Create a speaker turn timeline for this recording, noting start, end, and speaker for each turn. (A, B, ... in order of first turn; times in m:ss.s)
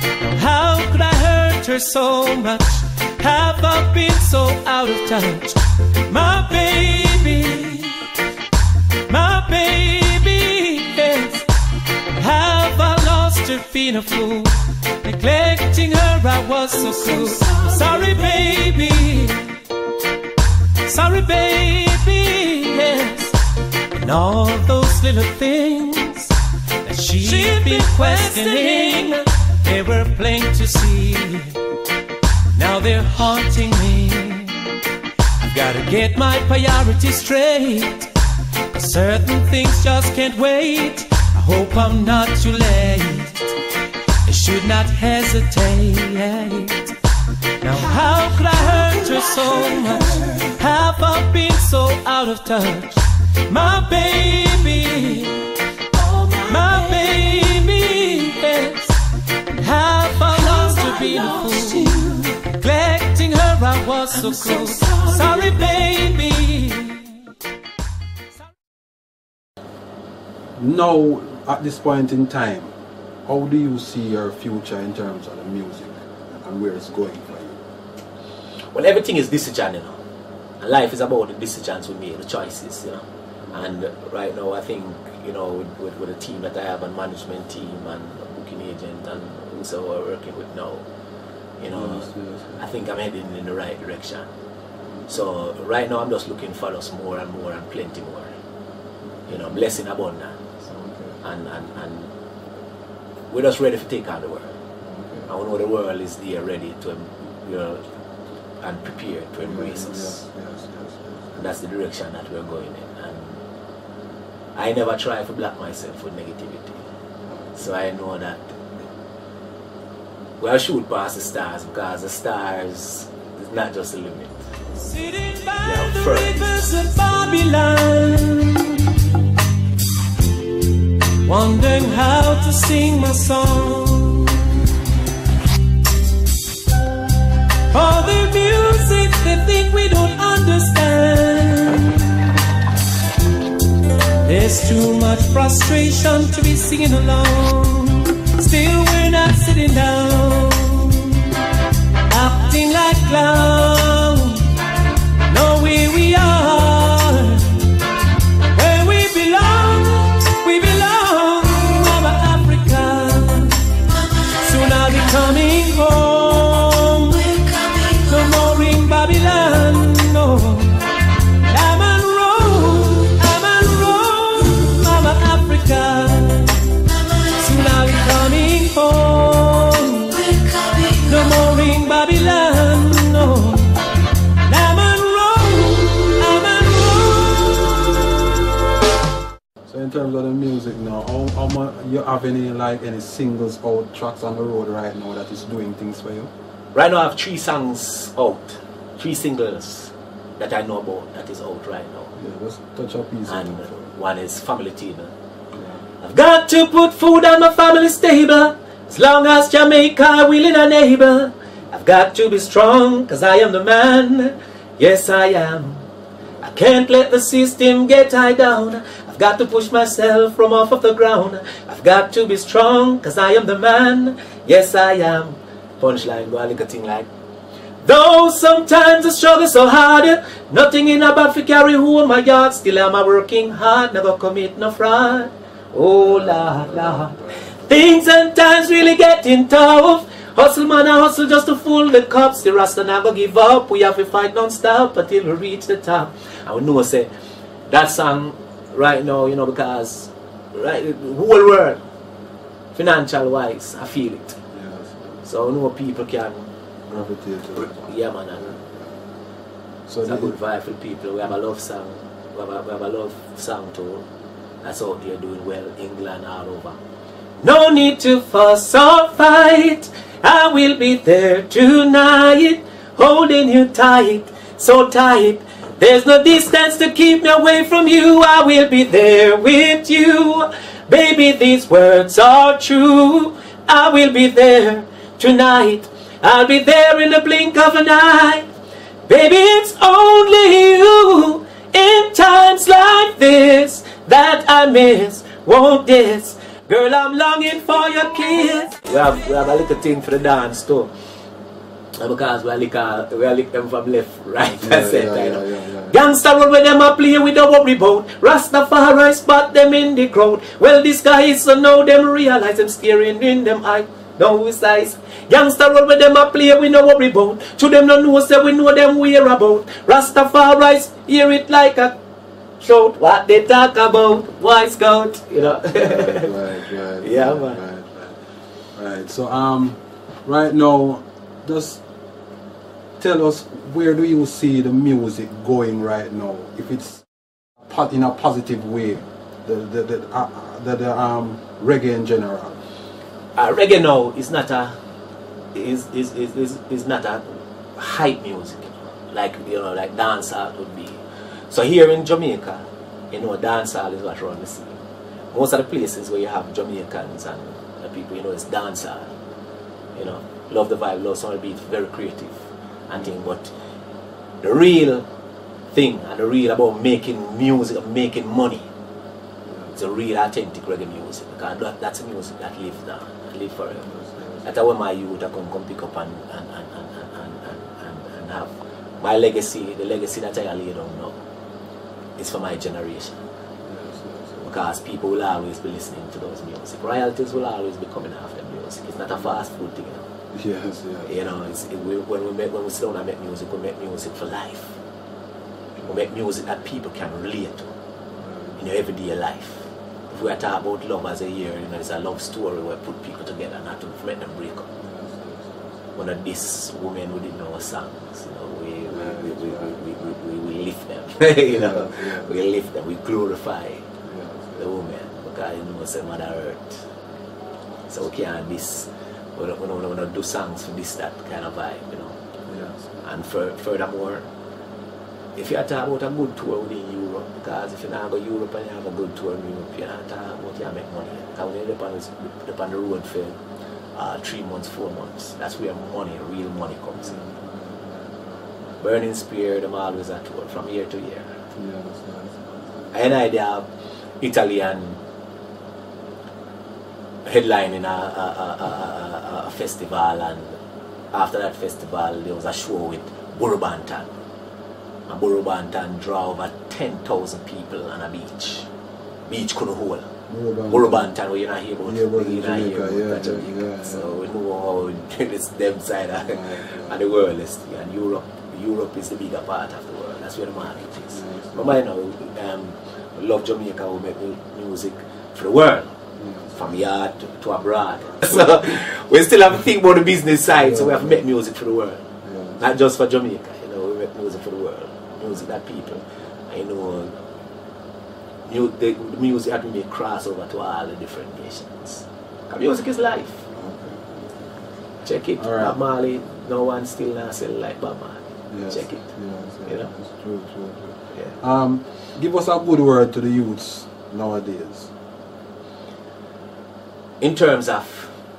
0:00.2-0:08.0 A
0:09.1-0:11.4 A
0:12.2-0:19.5 A
0:20.9-0:23.4 A
0:23.9-0:26.2 A
0:26.9-0:31.5 A
0:27.1-0:29.2 B
0:32.6-0:34.5 A
0:35.4-0:38.1 A
0:38.7-0:43.4 A
0:44.3-0:46.9 A
0:47.6-0:55.4 A
0:56.4-0:59.0 A
0:59.6-1:07.1 A
1:10.6-1:12.7 C
1:13.2-1:17.6 C
1:18.7-1:20.0 B
1:20.6-1:30.8 B
1:23.4-1:23.7 C
1:31.6-1:34.3 B
1:31.6-1:32.7 C
1:34.8-1:35.2 C
1:35.1-1:38.3 B
1:39.0-1:39.8 C
1:39.3-1:40.4 B
1:40.7-1:41.2 C
1:41.2-1:42.1 B
1:43.3-1:44.6 B
1:44.8-1:45.3 C
1:45.3-1:47.8 B
1:48.6-1:50.2 B
1:49.4-1:51.6 C
1:51.4-1:53.4 B
1:54.6-1:56.8 B
1:57.2-1:57.6 C
1:57.6-1:58.8 B
2:00.4-2:04.4 B
2:04.8-2:08.8 A
2:05.6-2:06.6 B
2:11.2-2:14.5 A
2:17.7-2:22.2 A
2:24.2-2:31.3 A
2:32.1-2:34.5 A
2:35.3-2:37.5 A
2:38.6-2:43.6 A
2:44.3-2:50.8 A
2:51.4-2:56.5 A
2:57.2-3:03.8 A
3:04.5-3:08.0 A
3:09.7-3:16.3 C
3:16.7-3:22.1 B
3:22.2-3:23.8 C
3:23.3-3:25.1 B
3:25.5-3:25.9 C
3:26.0-3:35.9 B
3:36.2-3:36.5 C
3:36.4-3:47.1 B
3:45.8-3:46.3 C
3:47.8-4:07.1 B
3:55.9-3:57.7 C
4:07.7-4:11.8 B
4:12.8-4:14.4 B
4:14.5-4:15.2 C
4:15.2-4:16.5 B
4:16.9-4:19.0 C
4:17.6-4:18.5 B
4:19.9-4:20.4 C
4:20.0-4:24.0 B
4:24.6-4:26.8 B
4:27.4-4:48.5 B
4:49.1-5:00.9 B
5:02.0-5:22.0 B
5:04.4-5:06.0 C
5:22.6-5:27.6 B
5:25.5-5:28.2 C
5:28.8-5:31.8 C
5:33.0-5:37.1 C
5:37.6-5:42.6 C
5:43.4-5:44.8 B
5:45.5-5:54.8 B
5:55.3-5:59.1 B
6:00.0-6:03.5 B
6:02.9-6:03.2 C
6:04.4-6:05.1 B
6:05.7-6:08.7 B
6:09.5-6:09.8 C
6:09.8-6:13.9 B
6:13.8-6:14.6 C
6:14.4-6:21.2 B
6:22.2-6:23.2 B
6:23.6-6:24.7 C
6:24.4-6:30.1 B
6:29.1-6:29.4 C
6:30.3-6:31.3 C
6:31.1-6:34.8 B
6:35.8-6:36.1 C
6:35.9-6:37.7 B
6:38.2-6:38.6 C
6:38.6-6:44.7 B
6:44.8-6:45.8 C
6:46.0-6:53.9 B
6:48.9-6:50.2 C
6:51.5-6:52.3 C
6:54.0-6:54.7 C
6:54.6-6:56.8 B
6:57.9-7:02.2 B
7:02.5-7:03.0 C
7:03.0-7:04.3 B
7:05.4-7:13.4 B
7:14.0-7:17.2 B
7:17.0-7:18.8 C
7:18.8-7:21.3 B
7:21.6-7:23.0 C
7:22.9-7:23.7 B
7:24.2-7:25.0 B
7:27.2-7:30.6 B
7:31.1-7:34.1 B
7:35.1-7:38.7 B
7:39.3-7:40.1 B
7:40.3-7:41.1 C
7:40.7-7:56.0 B
7:41.8-7:44.2 C
7:46.2-7:47.0 C
7:51.1-7:51.8 C
7:56.2-7:56.8 C
7:56.5-8:02.0 B
7:58.0-7:58.8 C
8:00.5-8:01.3 C
8:02.2-8:02.7 C
8:02.6-8:07.2 B
8:05.2-8:06.0 C
8:08.5-8:13.5 B
8:13.5-8:14.8 C
8:15.0-8:19.1 B
8:15.4-8:15.8 C
8:18.5-8:24.9 C
8:21.1-8:21.4 B
8:27.2-8:28.1 B